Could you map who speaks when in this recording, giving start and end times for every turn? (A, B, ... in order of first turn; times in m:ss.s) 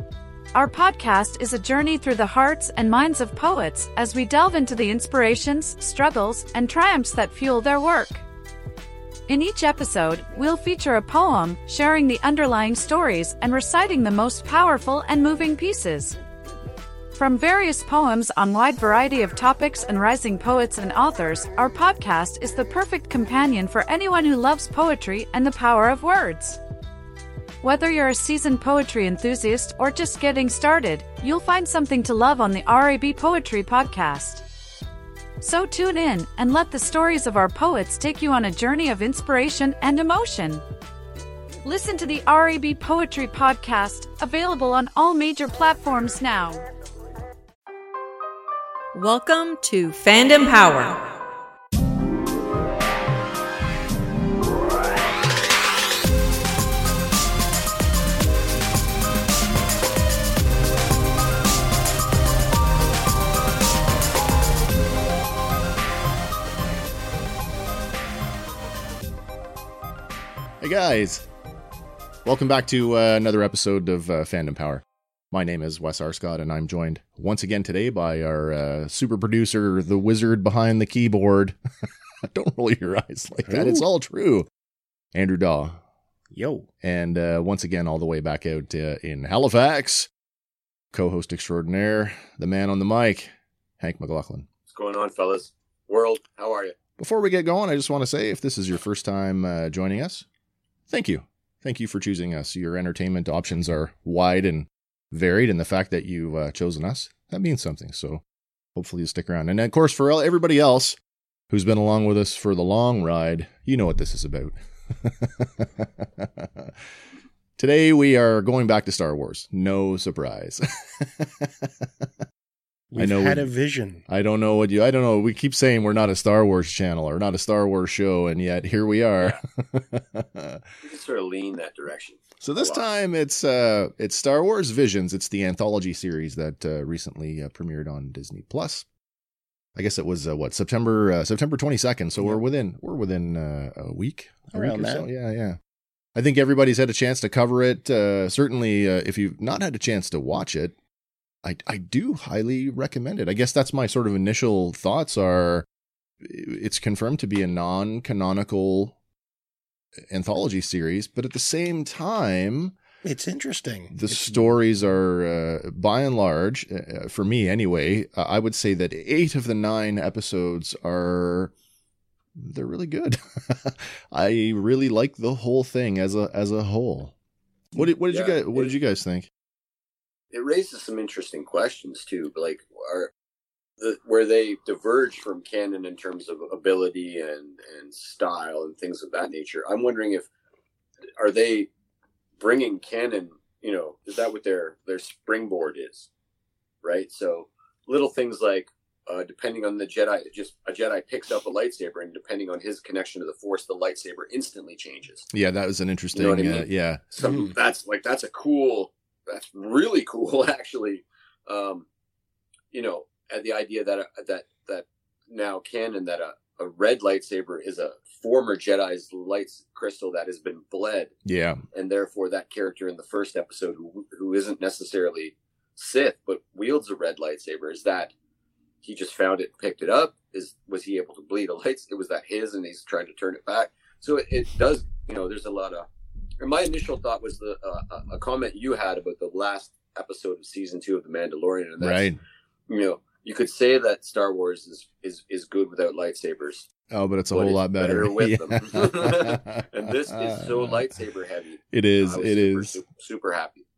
0:00.5-0:08.2 A
0:09.3-0:16.2 A
0:17.1-0:26.6 A
0:27.6-0:34.4 A
0:35.4-0:40.6 A
0:41.6-0:46.6 A
0:48.9-0:51.1 B
1:10.6-1:11.3 C
1:12.2-1:21.6 C
1:22.2-1:24.5 C
1:23.5-1:23.8 D
1:25.1-1:25.8 C
1:26.3-1:26.7 D
1:26.8-1:30.1 C
1:30.9-1:34.5 C
1:34.7-1:36.7 E
1:37.0-1:40.2 C
1:40.9-1:48.2 C
1:48.7-1:51.0 C
1:51.5-1:56.7 C
1:57.6-2:01.7 C
2:02.9-2:04.0 D
2:03.0-2:03.5 C
2:04.1-2:10.6 C
2:10.8-2:12.8 E
2:12.4-2:18.8 C
2:19.8-2:25.6 C
2:24.5-2:25.1 D
2:26.1-2:30.7 C
2:31.4-2:35.6 C
2:36.2-2:39.0 C
2:40.1-2:42.8 C
2:43.0-2:44.6 D
2:43.9-2:51.5 C
2:52.4-2:57.1 C
2:57.7-2:59.3 C
2:58.1-2:58.7 E
3:00.3-3:03.1 E
3:03.8-3:10.3 E
3:11.2-3:11.7 E
3:12.4-3:16.1 E
3:16.8-3:25.3 E
3:25.3-3:27.2 C
3:26.1-3:31.8 E
3:27.2-3:27.5 D
3:32.7-3:41.1 E
3:41.2-3:41.6 C
3:41.7-3:48.1 E
3:48.8-3:55.8 E
3:56.4-4:02.2 E
4:01.8-4:02.2 C
4:02.7-4:06.7 E
4:06.9-4:10.8 C
4:07.3-4:13.6 E
4:11.7-4:12.8 C